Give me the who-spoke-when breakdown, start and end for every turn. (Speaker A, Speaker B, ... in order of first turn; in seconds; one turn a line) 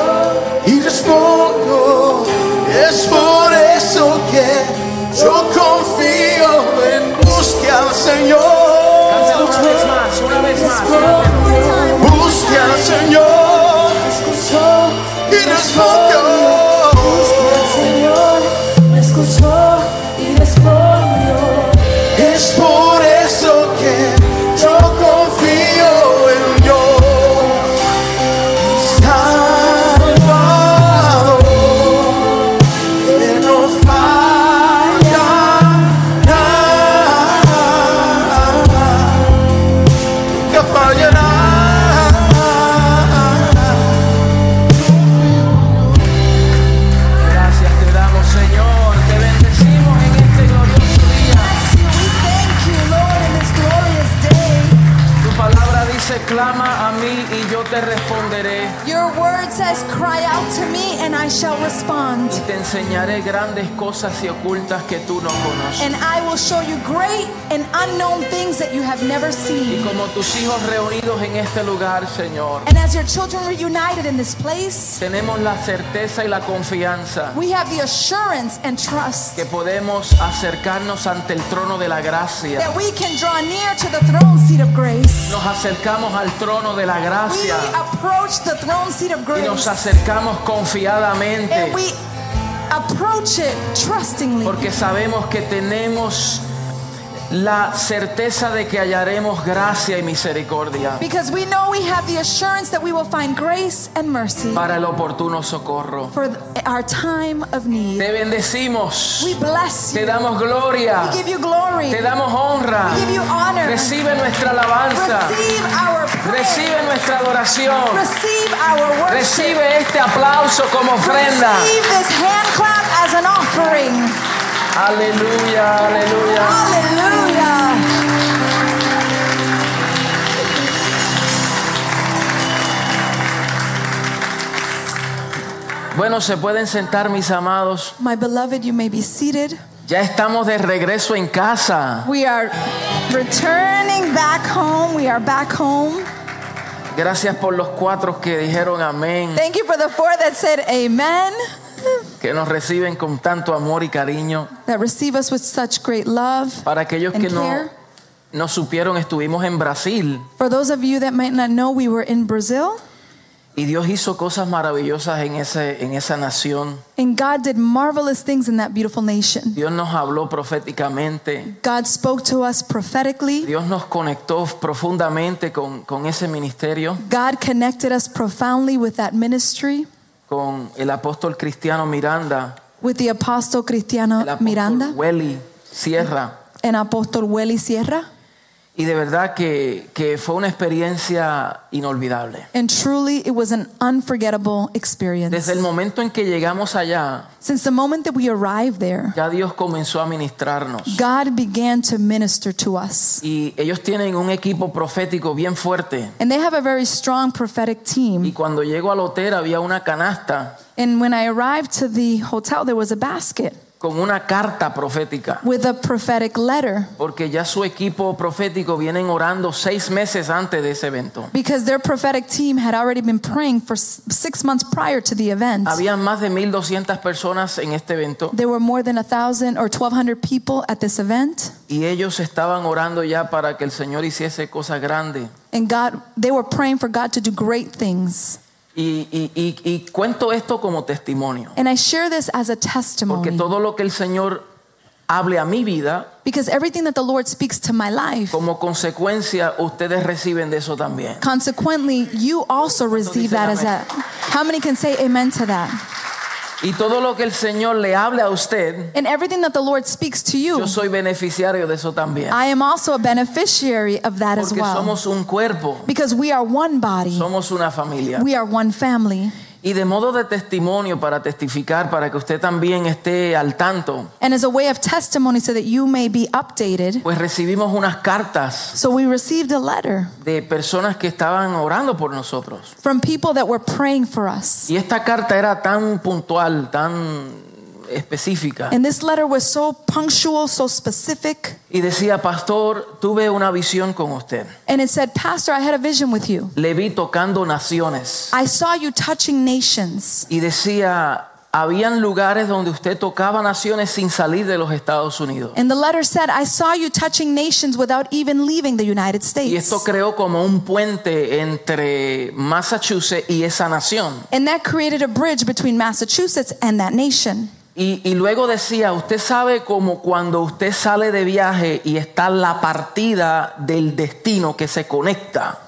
Speaker A: 0.5-10.0
Speaker B: 9.1-11.7
Speaker C: 11.3-12.5
Speaker A: 11.8-18.1
Speaker C: 17.4-18.3
Speaker A: 18.7-20.1
Speaker C: 20.1-20.8
Speaker A: 22.0-27.6
Speaker A: 28.7-32.4
Speaker A: 33.0-39.3
Speaker A: 40.5-44.0
Speaker B: 41.0-41.9
Speaker A: 44.8-46.0
Speaker B: 47.2-51.6
Speaker C: 51.3-54.8
Speaker B: 55.2-58.8
Speaker C: 58.8-62.4
Speaker B: 62.3-65.9
Speaker C: 65.8-69.9
Speaker B: 69.7-72.7
Speaker C: 72.7-75.0
Speaker B: 75.0-77.4
Speaker C: 77.3-79.4
Speaker B: 79.3-82.7
Speaker C: 82.6-85.4
Speaker B: 85.3-87.8
Speaker C: 87.2-89.9
Speaker B: 89.3-91.8
Speaker C: 91.5-92.0
Speaker C: 92.7-94.7
Speaker B: 94.4-96.5
Speaker B: 97.3-101.0
Speaker C: 101.0-104.7
Speaker B: 104.5-106.1
Speaker C: 106.1-108.1
Speaker B: 108.0-109.4
Speaker C: 109.2-110.2
Speaker B: 109.9-111.2
Speaker C: 111.0-112.0
Speaker B: 111.9-113.1
Speaker C: 112.8-114.0
Speaker B: 113.6-115.4
Speaker C: 114.9-116.7
Speaker B: 116.2-118.0
Speaker C: 117.9-119.6
Speaker B: 119.1-121.7
Speaker C: 121.0-124.2
Speaker B: 124.7-126.6
Speaker C: 126.3-127.9
Speaker B: 135.9-137.9
Speaker C: 138.0-139.6
Speaker B: 139.8-142.1
Speaker C: 142.0-146.1
Speaker B: 146.9-149.4
Speaker C: 149.3-151.9
Speaker B: 152.2-154.5
Speaker C: 154.6-157.7
Speaker B: 156.7-157.7
Speaker B: 158.3-160.3
Speaker C: 160.4-162.8
Speaker B: 163.6-166.8
Speaker C: 167.0-169.6
Speaker B: 169.5-171.5
Speaker C: 171.4-173.5
Speaker B: 173.4-177.0
Speaker C: 177.0-179.9
Speaker B: 180.3-182.6
Speaker C: 182.8-185.0
Speaker B: 184.2-186.3
Speaker C: 186.6-188.1
Speaker B: 188.8-192.5
Speaker C: 192.5-195.6
Speaker B: 195.3-197.3
Speaker C: 197.4-199.2
Speaker B: 199.1-201.0
Speaker C: 200.8-203.2
Speaker B: 203.2-206.2
Speaker C: 206.2-208.3
Speaker B: 208.2-210.6
Speaker C: 210.8-213.6
Speaker B: 213.8-215.4
Speaker C: 215.4-216.9
Speaker B: 217.0-221.3
Speaker C: 221.3-225.8
Speaker B: 225.6-228.3
Speaker C: 228.3-231.6
Speaker B: 231.7-235.3
Speaker C: 235.5-238.4
Speaker B: 238.7-241.5
Speaker C: 241.6-243.5
Speaker B: 243.1-244.5
Speaker B: 245.1-246.1
Speaker C: 246.2-248.4
Speaker B: 248.3-251.2
Speaker C: 251.2-255.8
Speaker B: 252.9-253.7
Speaker B: 256.6-258.9
Speaker C: 258.9-260.8
Speaker B: 260.5-262.4
Speaker C: 262.3-264.9
Speaker B: 264.4-265.9
Speaker C: 265.9-267.3
Speaker B: 267.1-268.2
Speaker C: 268.1-269.3
Speaker B: 269.6-274.1
Speaker C: 274.2-277.1
Speaker B: 277.0-278.8
Speaker C: 278.7-280.1
Speaker B: 280.2-282.7
Speaker C: 282.8-284.7
Speaker B: 284.7-288.8
Speaker C: 288.7-291.6
Speaker B: 291.7-294.5
Speaker C: 294.7-296.5
Speaker B: 296.6-298.3
Speaker C: 298.3-300.3
Speaker B: 300.3-305.6
Speaker C: 305.5-309.8
Speaker B: 309.4-314.2
Speaker C: 314.3-317.5
Speaker B: 317.8-325.6